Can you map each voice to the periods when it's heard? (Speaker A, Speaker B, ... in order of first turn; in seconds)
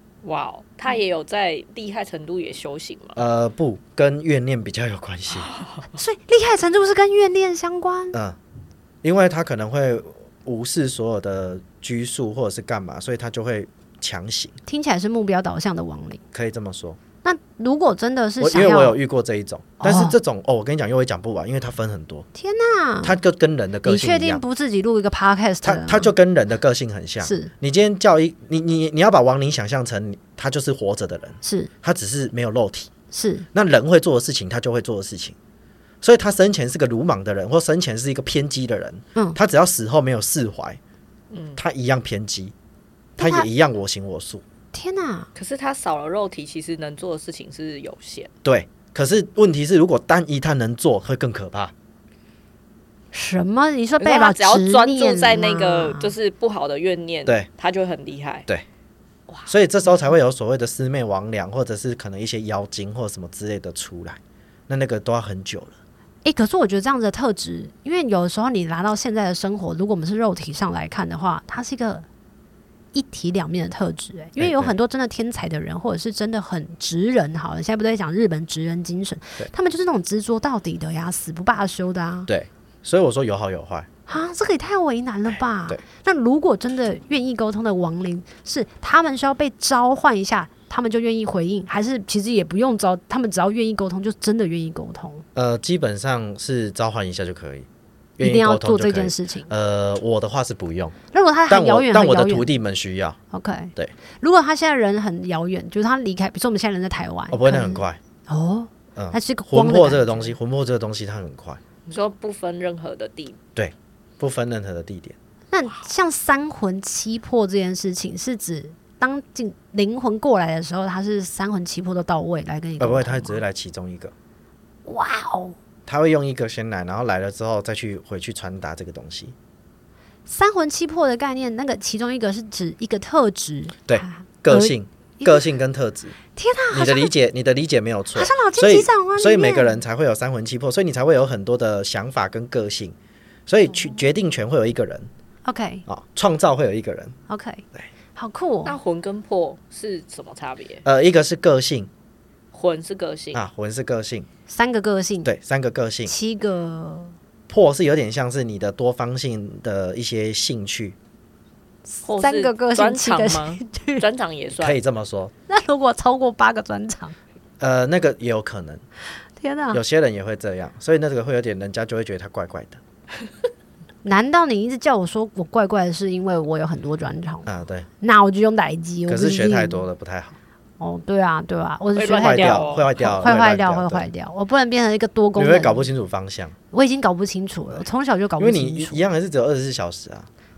Speaker A: 0.2-3.2, 5.4-5.7, 41.3-41.6, 45.3-48.3, 54.0-58.5, 111.9-113.4, 148.6-150.8, 152.5-153.4, 162.1-164.8, 181.9-182.9
Speaker B: 3.1-5.5, 8.1-8.4, 9.0-14.6, 16.3-17.0, 18.4-22.2, 23.0-24.4, 25.6-32.9, 33.5-35.4, 36.0-40.8, 41.5-42.5, 43.2-44.4, 48.4-51.7, 59.5-65.8, 74.4-74.7, 82.3-83.9, 95.3-101.0, 101.5-103.2, 107.3-108.0, 109.0-111.6, 113.5-115.2, 122.8-124.1, 125.9-129.3, 133.9-136.1, 136.7-142.9, 143.5-145.1, 145.9-147.2, 150.8-151.9, 153.3-154.3, 155.2-156.1, 157.5-160.9, 164.6-165.3, 167.6-168.8, 169.7-172.8, 177.4-177.9, 179.1-180.4, 182.2-184.1, 185.3-186.6, 188.4-190.3
Speaker C: 5.9-8.2, 14.7-16.2, 17.2-19.0, 19.8-20.1, 22.4-23.2, 23.8-26.1, 27.2-27.5, 31.4-31.7, 33.1-33.5, 43.2-43.5, 44.7-45.3, 53.1-56.1, 66.2-72.0, 72.9-82.3, 84.1-95.2, 98.2-99.5, 101.1-102.5, 103.3-110.3, 115.5-123.4, 124.8-125.5, 130.3-135.4, 136.3-137.1, 138.1-139.8, 145.4-145.8, 147.3-148.8, 154.5-155.3, 156.1-157.1, 161.9-164.1, 165.5-167.2, 169.4-169.8, 174.0-177.5, 178.0-179.8, 180.8-185.9, 186.7-189.0